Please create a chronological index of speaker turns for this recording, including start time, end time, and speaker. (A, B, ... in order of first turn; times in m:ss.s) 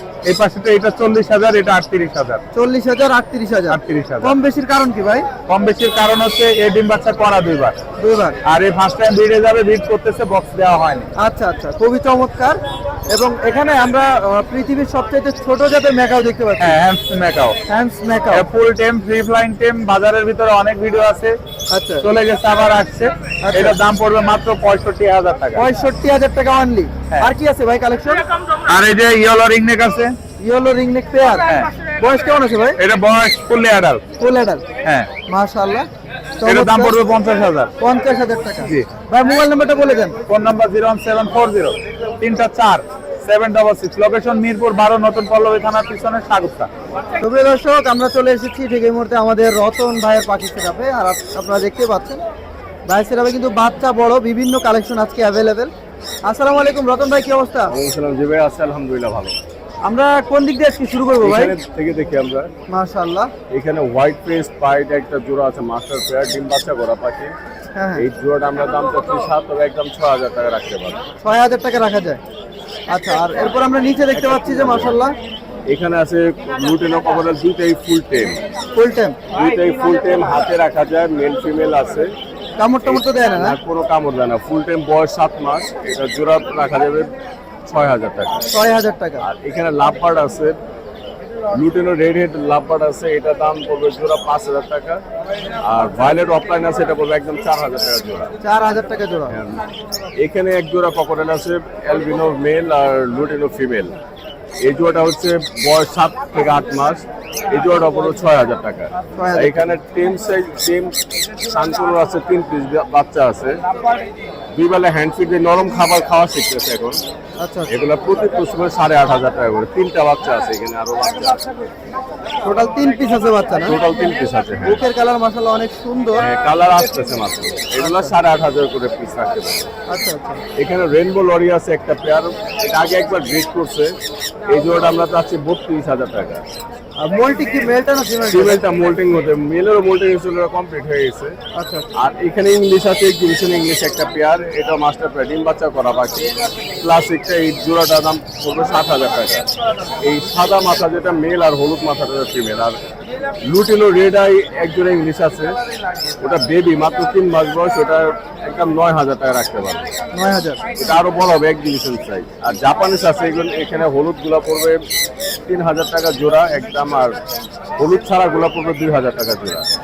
0:00.2-0:02.4 A
0:02.5-0:05.2 B
0:03.7-0:04.3 A
0:05.5-0:07.7 A
0:08.0-0:08.4 B
0:08.4-0:11.1 A
0:11.2-0:12.6 B
0:13.1-0:16.8 B
0:16.6-0:17.6 A
0:17.7-0:18.4 B
0:18.3-0:21.4 A
0:21.7-0:22.0 B
0:22.0-0:25.7 A
0:23.4-0:23.8 B
0:25.5-0:28.2 B
0:28.7-0:30.1 A
0:30.4-0:32.8 B
0:32.8-0:34.0 A
0:34.2-0:34.6 B
0:35.3-0:35.9 B
0:36.4-0:36.9 B
0:36.4-0:37.7 A
0:37.8-0:40.2 B
0:38.6-0:38.9 A
0:40.3-0:46.7 A
0:47.2-0:52.2 B
0:52.9-0:55.7 B
0:56.2-0:57.7 B
0:57.7-0:59.4 C
0:59.8-1:01.5 B
1:01.2-1:02.5 C
1:02.7-1:03.3 B
1:03.5-1:07.3 C
1:07.8-1:08.0 B
1:08.0-1:11.0 C
1:11.2-1:12.2 B
1:12.9-1:15.1 B
1:14.1-1:15.0 C
1:15.7-1:18.4 C
1:18.7-1:19.2 B
1:19.3-1:22.1 C
1:22.6-1:23.6 B
1:22.8-1:27.1 C
1:27.6-1:28.4 C
1:28.5-1:29.2 B
1:29.2-1:30.6 C
1:31.5-1:35.0 C
1:35.6-1:38.3 C
1:38.4-1:39.3 B
1:39.3-1:39.6 C
1:40.2-1:43.9 C
1:44.6-1:53.6 C
1:49.2-1:49.7 B
1:54.5-1:57.0 C
1:57.4-1:57.7 B
1:57.7-2:01.5 C
2:02.4-2:03.8 B
2:03.6-2:04.8 C
2:04.6-2:06.2 B
2:06.2-2:09.7 C
2:07.8-2:08.1 B
2:09.9-2:10.4 B
2:10.6-2:13.9 C
2:14.5-2:16.4 C
2:17.0-2:18.6 B
2:18.3-2:21.4 C
2:21.5-2:21.9 B
2:22.0-2:29.5 C
2:30.0-2:32.8 C
2:33.4-2:35.6 C
2:36.2-2:39.8 C
2:40.1-2:40.6 B
2:40.8-2:44.8 C
2:45.4-2:47.2 C
2:47.8-2:49.7 C